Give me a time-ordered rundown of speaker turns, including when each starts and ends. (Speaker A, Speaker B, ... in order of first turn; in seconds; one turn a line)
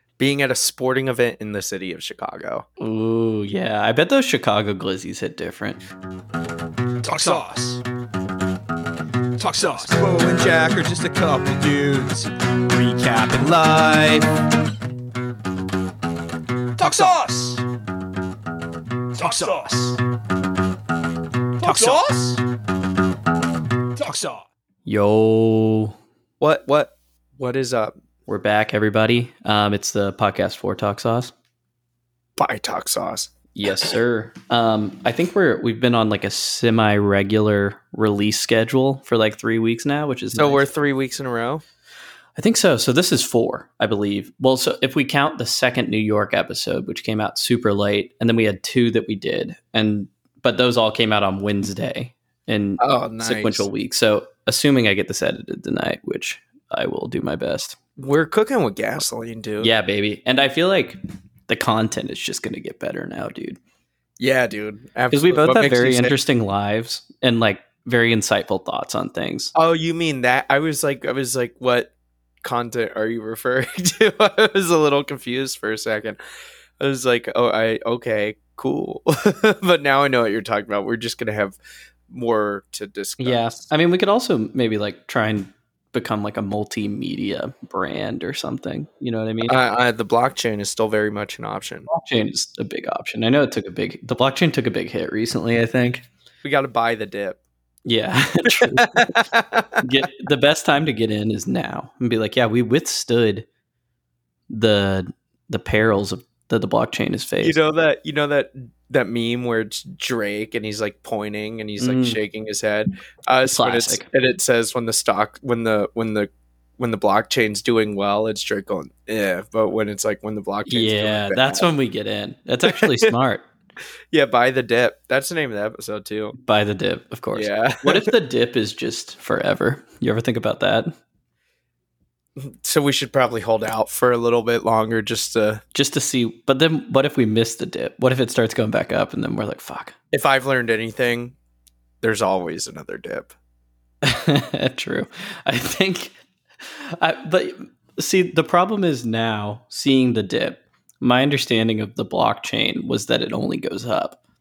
Speaker A: 0.2-2.6
Speaker B: 2.8-5.8
Speaker C: 7.0-7.8
Speaker C: 9.4-14.3
Speaker A: 9.9-10.8
Speaker C: 16.8-17.6
Speaker C: 19.1-20.0
Speaker C: 21.6-22.4
Speaker C: 24.0-24.5
Speaker B: 24.9-26.0
Speaker A: 26.4-27.9
Speaker B: 28.3-31.3
Speaker A: 32.4-33.3
Speaker B: 33.5-40.7
Speaker A: 40.4-41.6
Speaker B: 42.4-57.8
Speaker A: 52.8-53.7
Speaker A: 58.0-59.7
Speaker B: 59.6-63.6
Speaker A: 64.2-66.2
Speaker B: 65.1-69.5
Speaker A: 69.5-71.9
Speaker A: 72.4-76.2
Speaker A: 76.8-81.6
Speaker A: 82.1-83.7
Speaker B: 83.2-89.6
Speaker A: 89.5-91.9
Speaker B: 91.9-96.1
Speaker A: 96.4-97.4
Speaker B: 97.9-99.2
Speaker A: 98.5-99.9
Speaker B: 99.8-103.5
Speaker B: 104.5-107.6
Speaker A: 107.4-121.7
Speaker B: 111.8-112.2
Speaker B: 113.5-114.1
Speaker B: 120.7-123.5
Speaker A: 122.7-123.1
Speaker A: 124.1-126.3
Speaker B: 126.4-130.9
Speaker A: 127.3-128.1
Speaker A: 132.4-135.6
Speaker B: 135.7-140.0
Speaker A: 140.1-141.4
Speaker A: 142.0-143.3
Speaker B: 144.0-154.2